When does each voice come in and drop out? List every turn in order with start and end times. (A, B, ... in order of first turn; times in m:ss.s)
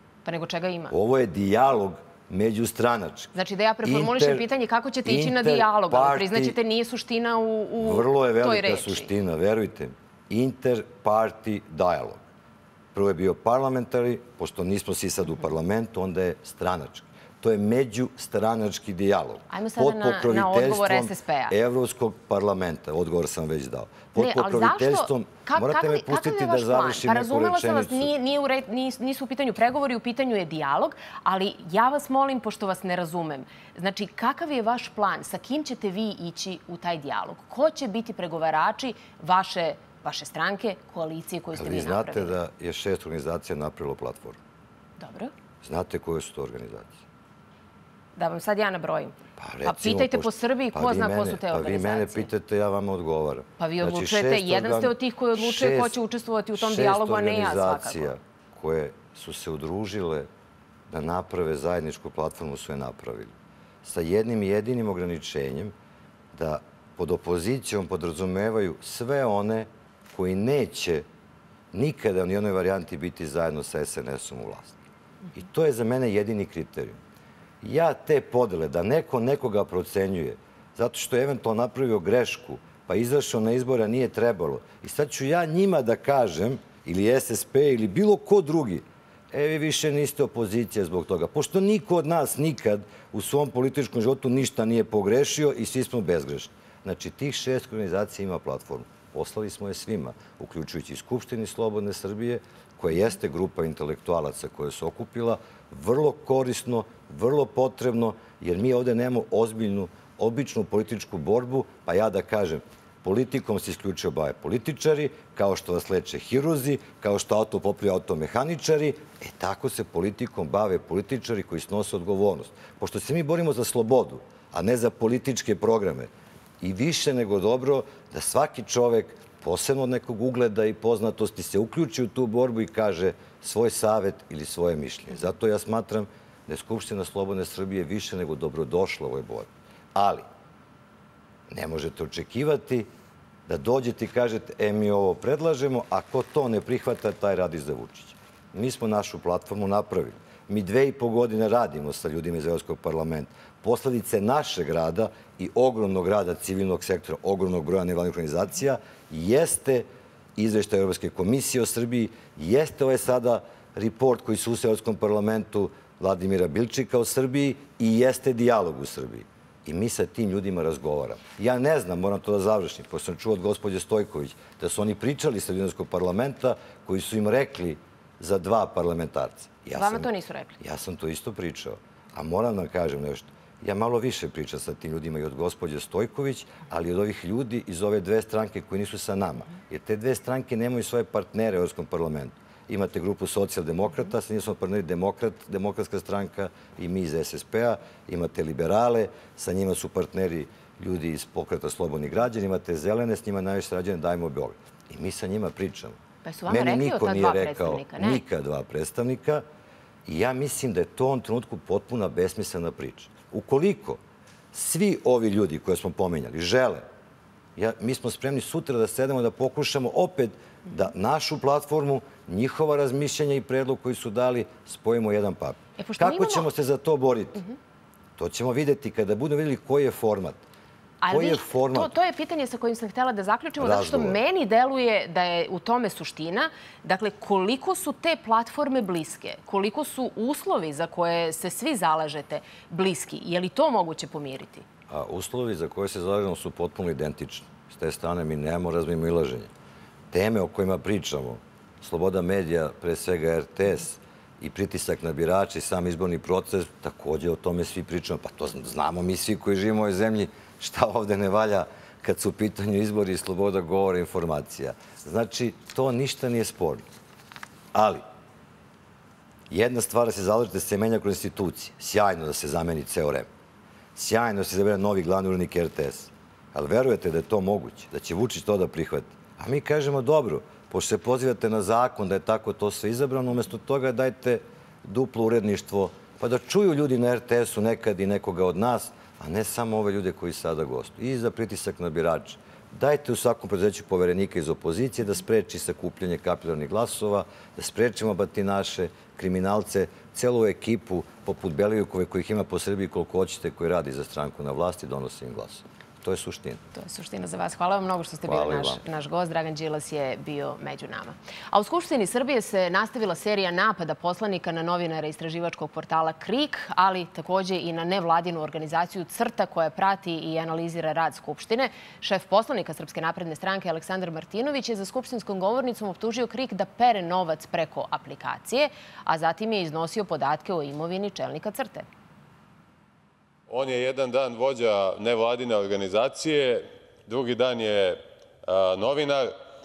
0:00.2-0:00.9 A
0:00.9-0:03.3 B
0:03.3-0:09.1 A
0:03.8-0:04.4 B
0:05.0-0:06.6 B
0:07.8-0:12.2 B
0:12.9-0:28.1 B
0:19.5-0:21.5 A
0:24.2-0:42.4 A
0:41.5-0:44.4 B
0:45.0-0:45.3 A
0:45.6-0:47.0 B
0:48.2-0:52.3 A
0:49.4-0:56.0 B
0:53.6-0:58.1 A
0:56.6-1:00.3 B
1:00.9-1:03.3 B
1:03.8-1:05.7 B
1:06.3-1:11.0 B
1:11.7-1:14.8 B
1:15.3-1:17.0 B
1:17.6-2:06.1 B
2:06.6-2:20.2 B
2:21.5-2:22.9 B
2:23.5-2:39.8 B
2:40.4-3:00.1 B
2:59.8-3:00.6 A
3:00.6-3:26.0 B
3:26.2-3:28.2 A
3:26.5-3:29.4 B
3:30.0-3:34.0 B
3:34.5-3:36.8 B
3:37.6-3:47.4 B
3:45.8-3:46.5 A
3:48.2-3:50.4 B
3:51.0-4:04.6 A
3:51.1-3:51.9 B
3:53.6-3:54.2 B
4:04.9-4:09.5 B
4:10.1-4:26.8 B
4:27.7-4:28.0 B
4:29.5-4:33.3 B
4:34.0-5:06.6 B
5:06.7-5:31.8 A
5:08.2-5:08.8 B
5:33.5-5:39.4 C